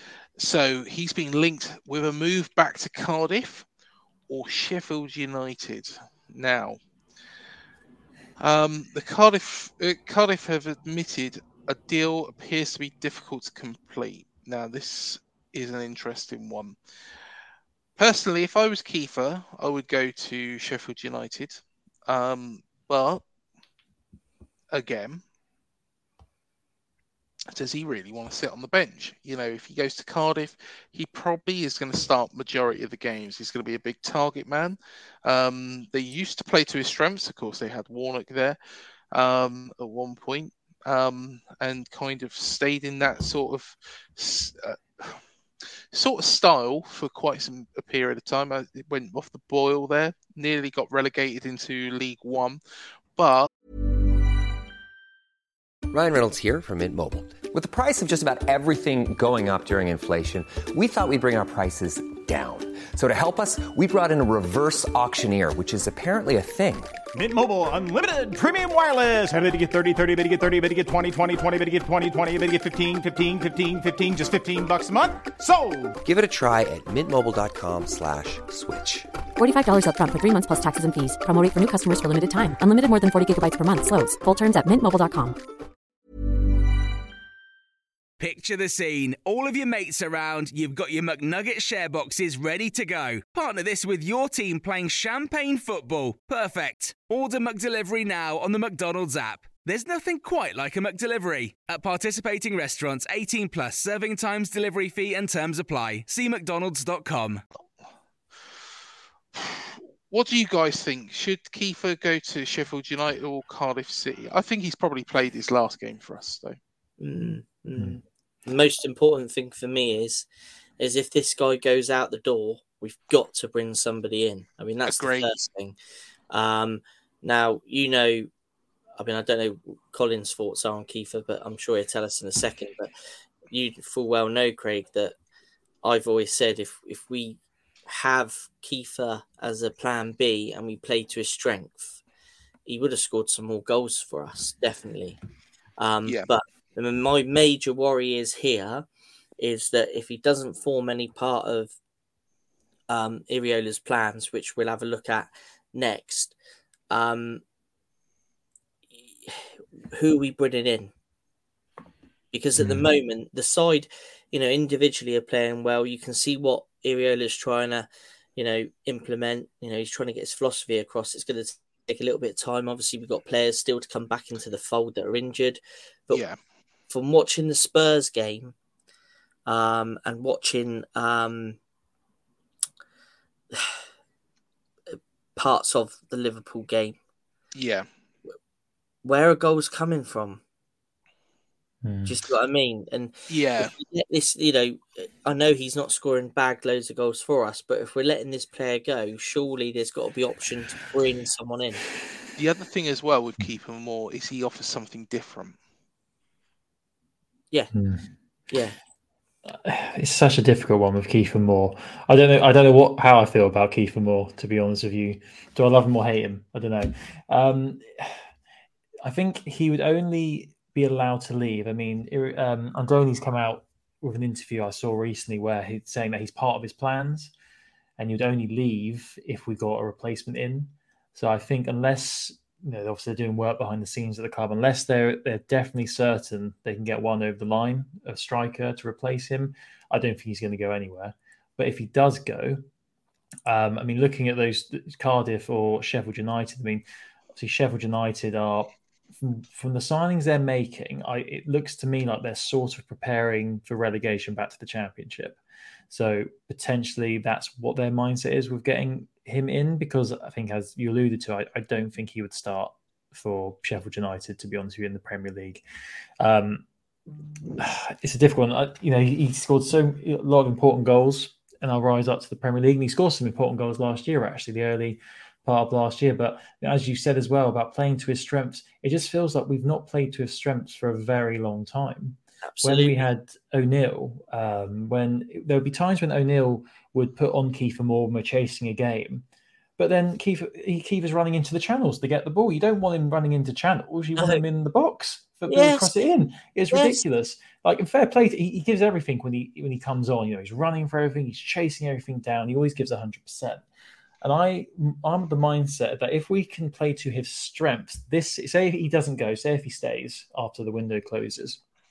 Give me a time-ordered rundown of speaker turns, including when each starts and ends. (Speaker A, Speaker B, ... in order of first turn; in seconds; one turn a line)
Speaker A: 0.4-3.6
Speaker A: 4.3-6.8
Speaker A: 8.4-16.8
Speaker A: 18.0-23.2
Speaker A: 24.7-25.2
Speaker A: 27.5-38.6
Speaker A: 39.1-45.2
Speaker A: 45.9-52.6
Speaker A: 53.1-53.5
Speaker B: 55.9-66.9
Speaker C: 67.1-76.0
Speaker B: 76.0-79.1
Speaker D: 79.4-85.4
Speaker E: 88.2-107.4
Speaker A: 109.3-116.6
Speaker F: 117.0-120.2
Speaker F: 120.8-125.8
Speaker A: 124.9-125.3
Speaker F: 126.3-128.3
Speaker F: 129.0-132.9
Speaker F: 133.5-135.1
Speaker F: 135.8-142.0
Speaker F: 142.7-145.2
Speaker F: 145.8-148.8
Speaker F: 149.4-151.7
Speaker F: 152.9-156.3
Speaker F: 156.9-157.4
Speaker F: 159.2-160.9
Speaker F: 162.3-176.2
Speaker G: 162.6-162.8
Speaker A: 176.1-176.4
Speaker F: 176.9-178.5
Speaker F: 179.4-181.6
Speaker F: 183.5-183.8
Speaker F: 184.9-187.0
Speaker A: 187.5-187.9
Speaker F: 189.0-190.4
Speaker G: 191.8-192.2
Speaker F: 192.1-201.8
Speaker A: 193.3-193.7
Speaker A: 202.3-205.6
Speaker G: 207.7-208.1
Speaker F: 208.5-208.8
Speaker G: 209.4-218.2
Speaker G: 219.0-227.3
Speaker G: 228.0-242.7
Speaker G: 243.4-265.6
Speaker G: 266.2-266.6
Speaker G: 267.6-289.2
Speaker F: 282.4-283.1
Speaker G: 289.8-303.6
Speaker F: 294.1-294.4
Speaker F: 295.5-296.0
Speaker F: 296.7-297.0
Speaker G: 304.2-311.6